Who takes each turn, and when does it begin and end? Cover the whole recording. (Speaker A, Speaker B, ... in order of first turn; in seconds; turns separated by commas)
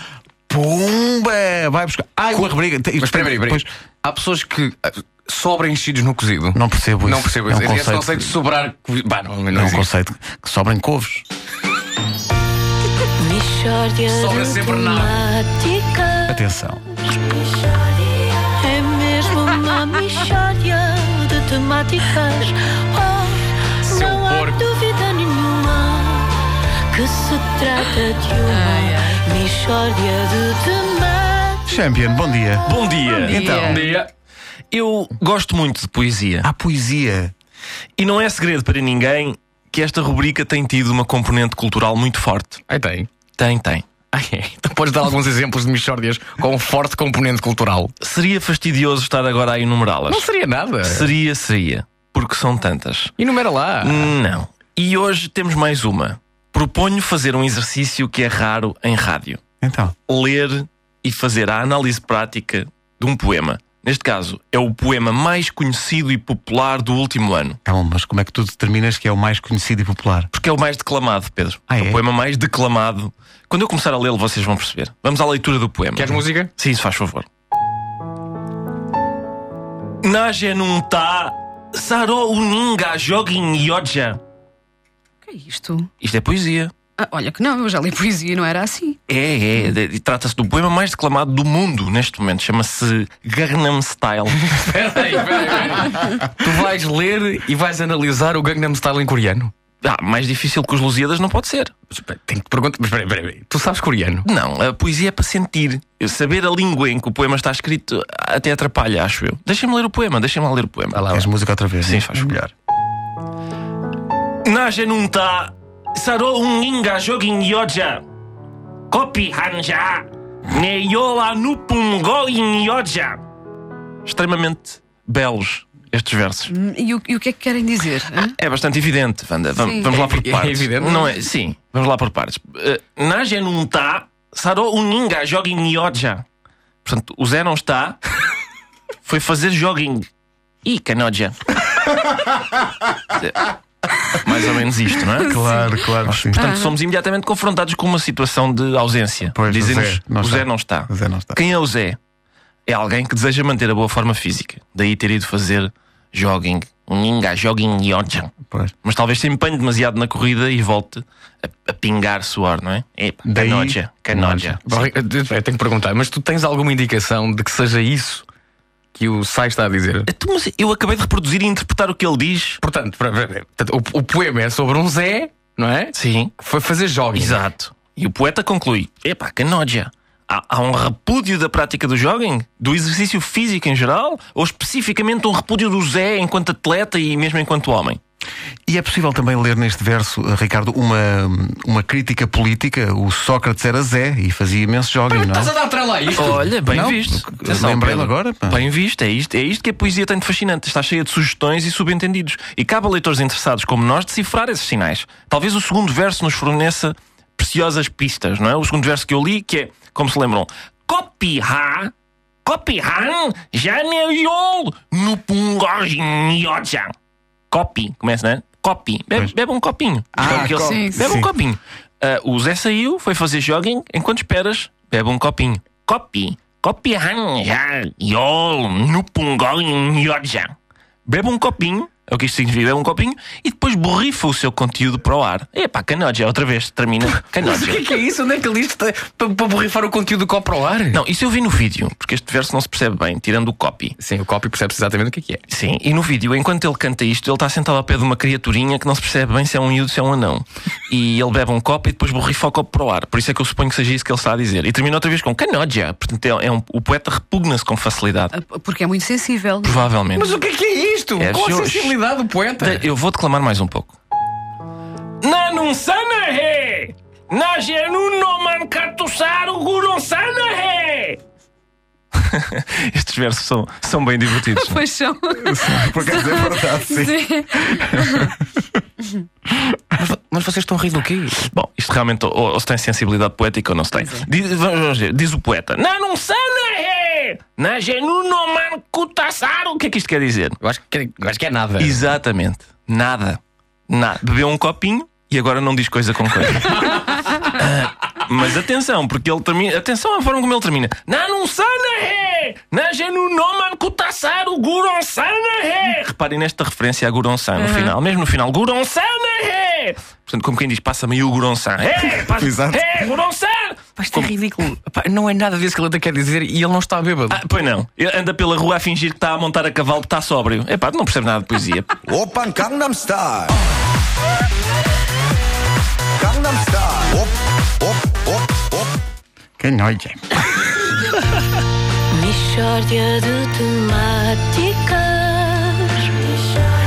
Speaker A: 0.5-3.7, Speaker B: 2.3-9.9, Speaker A: 6.5-8.3, Speaker A: 9.5-11.2, Speaker C: 13.2-16.3, Speaker B: 14.1-15.3, Speaker A: 16.3-16.9, Speaker C: 17.3-31.7, Speaker B: 23.8-24.7, Speaker D: 28.5-29.2, Speaker A: 31.7-32.7, Speaker E: 32.7-33.6, Speaker D: 33.1-33.9, Speaker A: 33.3-33.9, Speaker B: 33.6-34.1, Speaker E: 34.7-36.5, Speaker A: 36.4-37.3, Speaker E: 38.0-42.6, Speaker B: 42.7-43.1, Speaker E: 43.4-43.9, Speaker B: 44.1-47.9, Speaker E: 48.0-50.2, Speaker B: 50.1-51.1, Speaker E: 50.9-53.1, Speaker B: 53.2-54.1, Speaker E: 53.8-59.4, Speaker A: 59.6-59.9, Speaker E: 60.1-67.6, Speaker A: 67.7-70.3, Speaker E: 70.3-77.3, Speaker A: 71.7-72.0, Speaker B: 76.0-76.5, Speaker E: 80.0-84.2, Speaker D: 85.2-85.9, Speaker E: 86.0-86.7, Speaker D: 87.0-89.0, Speaker E: 89.1-94.7, Speaker B: 94.4-99.5, Speaker E: 99.8-101.7, Speaker B: 101.9-104.3, Speaker E: 104.2-111.1, Speaker B: 110.9-111.3, Speaker A: 111.1-112.5, Speaker E: 111.8-112.3, Speaker E: 114.4-118.0, Speaker E: 118.9-123.2, Speaker E: 124.1-126.5, Speaker D: 126.5-128.3, Speaker E: 128.2-136.2, Speaker D: 129.6-129.9, Speaker B: 129.8-131.1, Speaker E: 136.8-138.0, Speaker E: 139.1-140.1, Speaker E: 140.6-141.6, Speaker E: 143.2-143.5, Speaker E: 144.1-145.5, Speaker A: 145.2-146.5, Speaker E: 146.1-152.0, Speaker D: 146.4-146.7, Speaker A: 149.3-151.4, Speaker E: 152.7-158.3, Speaker E: 158.8-164.9, Speaker A: 163.2-164.6, Speaker B: 164.6-168.3, Speaker B: 168.9-170.1, Speaker E: 170.1-172.6, Speaker B: 172.6-177.4, Speaker E: 175.9-176.3, Speaker E: 177.1-188.0, Speaker A: 188.7-195.5, Speaker B: 195.1-196.5, Speaker E: 196.2-211.9, Speaker A: 196.7-198.6, Speaker E: 212.4-216.9, Speaker E: 217.5-230.5, Speaker A: 220.2-221.3, Speaker D: 220.6-221.1, Speaker E: 231.1-237.8, Speaker B: 237.4-241.0, Speaker E: 240.9-244.0, Speaker B: 244.0-245.4, Speaker E: 245.5-258.3, Speaker D: 258.3-259.9, Speaker E: 259.6-260.4, Speaker B: 260.1-262.8, Speaker E: 261.2-262.0, Speaker E: 262.6-264.0, Speaker E: 265.2-271.2, Speaker E: 272.2-274.9, Speaker D: 274.5-278.3, Speaker A: 275.3-278.3, Speaker B: 280.0-281.5, Speaker E: 281.5-290.6, Speaker D: 284.0-284.3, Speaker B: 290.6-292.2, Speaker E: 291.8-314.3, Speaker A: 312.2-313.0, Speaker B: 314.0-317.4, Speaker E: 317.3-322.0, Speaker F: 322.1-323.6, Speaker F: 326.2-329.0, Speaker A: 329.6-330.2, Speaker C: 332.1-336.3